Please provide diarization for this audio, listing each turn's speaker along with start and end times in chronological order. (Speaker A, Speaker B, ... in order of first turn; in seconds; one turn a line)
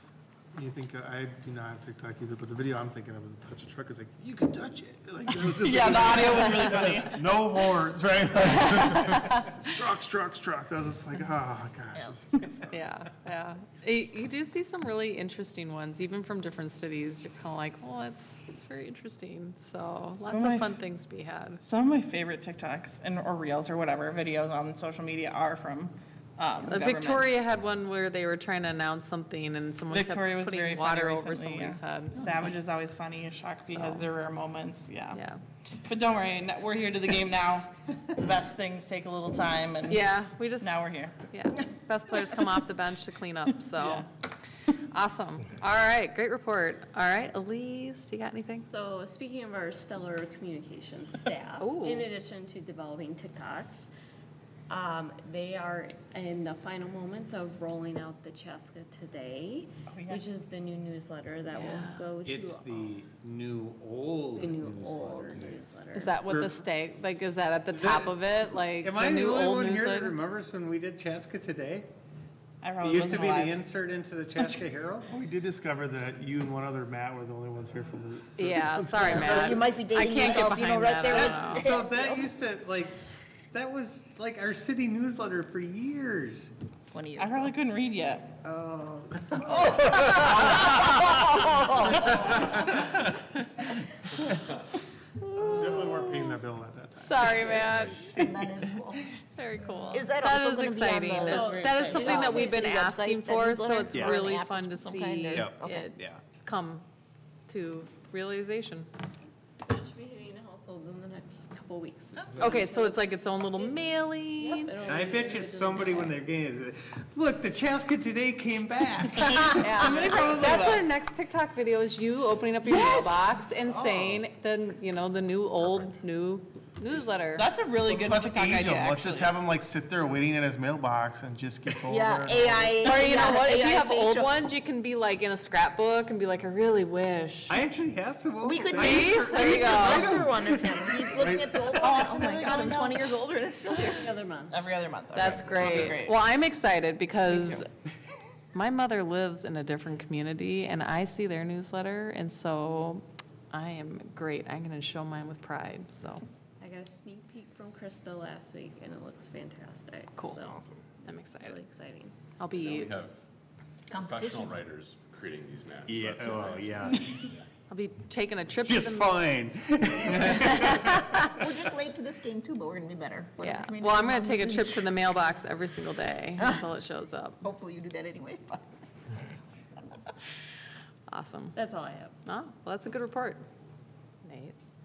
Speaker A: 0.5-12.7
Speaker B: 5.2-7.3
Speaker C: 12.7-21.6
Speaker B: 20.2-20.8
Speaker B: 21.6-27.5
Speaker C: 26.7-32.6
Speaker B: 29.9-35.2
Speaker C: 33.7-34.1
Speaker C: 35.1-35.4
Speaker B: 35.8-41.1
Speaker C: 39.9-44.1
Speaker B: 43.7-44.1
Speaker C: 44.9-48.6
Speaker D: 48.6-53.9
Speaker C: 51.6-52.1
Speaker D: 54.7-63.0
Speaker B: 59.9-60.2
Speaker C: 61.5-62.1
Speaker E: 62.2-66.6
Speaker D: 64.3-66.2
Speaker C: 65.9-70.2
Speaker E: 67.7-71.8
Speaker B: 72.6-73.6
Speaker E: 72.8-75.1
Speaker A: 75.1-79.6
Speaker C: 78.4-81.7
Speaker F: 79.0-82.2
Speaker E: 81.2-82.9
Speaker E: 83.5-86.5
Speaker F: 86.9-87.5
Speaker B: 87.2-88.3
Speaker E: 88.4-90.5
Speaker F: 89.4-92.7
Speaker C: 95.4-96.3
Speaker A: 95.4-98.2
Speaker C: 97.0-98.2
Speaker F: 97.9-99.1
Speaker C: 99.4-106.8
Speaker F: 99.9-105.9
Speaker D: 101.2-102.7
Speaker E: 103.9-104.3
Speaker E: 105.3-106.2
Speaker C: 107.5-108.9
Speaker D: 109.6-113.8
Speaker C: 112.3-114.8
Speaker D: 114.4-116.2
Speaker E: 114.8-120.8
Speaker C: 119.2-127.5
Speaker B: 119.6-120.8
Speaker F: 122.7-123.2
Speaker E: 123.7-124.2
Speaker B: 127.3-129.4
Speaker A: 127.8-132.7
Speaker F: 131.8-134.4
Speaker C: 132.7-137.6
Speaker E: 137.5-141.0
Speaker F: 138.4-144.1
Speaker C: 138.7-140.2
Speaker A: 141.1-141.5
Speaker B: 141.7-143.1
Speaker D: 143.8-144.6
Speaker B: 144.5-146.2
Speaker C: 145.1-147.7
Speaker E: 145.6-146.0
Speaker C: 148.5-156.2
Speaker D: 156.6-160.6
Speaker C: 161.0-161.6
Speaker D: 161.4-162.1
Speaker C: 162.4-163.0
Speaker G: 162.5-163.1
Speaker F: 163.9-164.6
Speaker G: 163.9-167.4
Speaker E: 165.8-167.2
Speaker C: 167.7-169.2
Speaker E: 168.6-171.4
Speaker C: 170.5-170.9
Speaker F: 171.3-174.9
Speaker C: 173.4-177.4
Speaker F: 176.4-176.6
Speaker F: 177.4-178.6
Speaker C: 181.1-181.6
Speaker D: 181.5-182.1
Speaker C: 182.2-183.4
Speaker C: 184.2-184.6